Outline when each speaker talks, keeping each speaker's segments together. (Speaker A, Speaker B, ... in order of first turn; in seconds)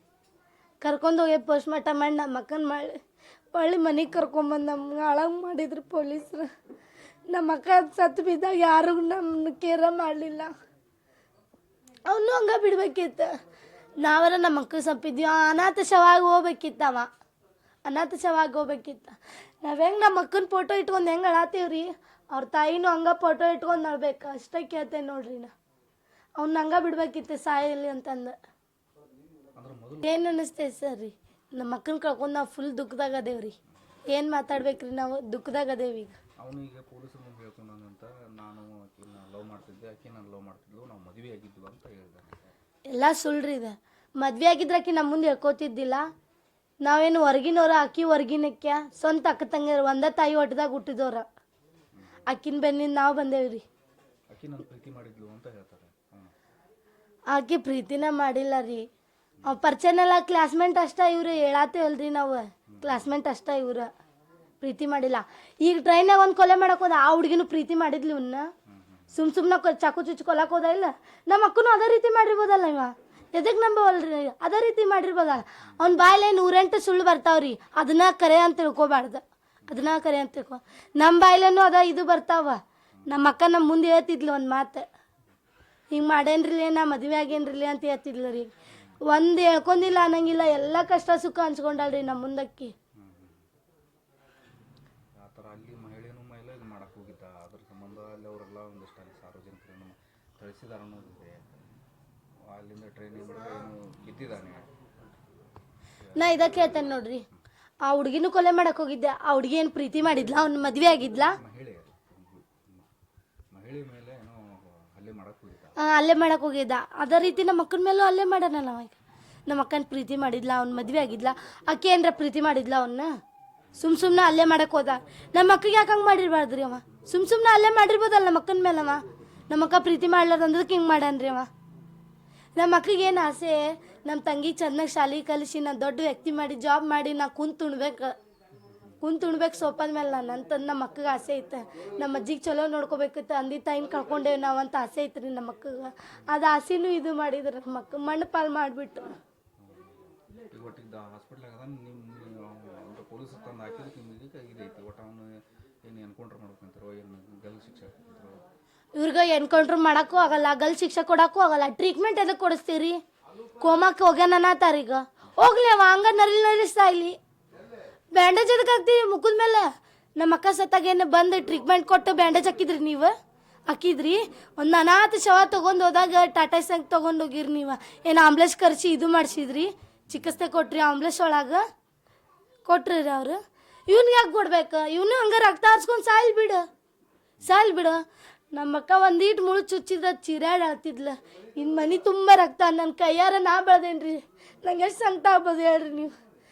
Speaker A: 0.8-3.0, 3.5-6.5, 7.3-10.5, 12.1-13.3, 14.0-17.1, 17.9-25.5, 26.4-28.4, 30.0-33.5, 34.1-36.2, 42.9-46.0, 46.8-51.3, 52.3-53.6, 57.3-58.9, 59.4-63.9, 64.6-68.5, 69.1-84.8, 85.9-88.5, 89.0-92.7, 106.2-107.2, 107.8-111.3, 115.8-123.1, 123.8-131.5, 132.6-138.1, 139.0-149.2, 158.9-163.0, 163.6-167.2, 168.1-173.1, 173.7-181.6, 182.7-186.6, 187.4-188.0, 188.5-196.1
Speaker B: 29.6-30.2, 36.4-42.4, 54.3-56.3, 62.7-63.1, 68.7-69.1, 93.0-93.5, 95.2-101.6, 102.5-104.7, 106.1-106.8, 111.3-112.9, 113.5-115.7, 138.6-139.0, 149.6-158.4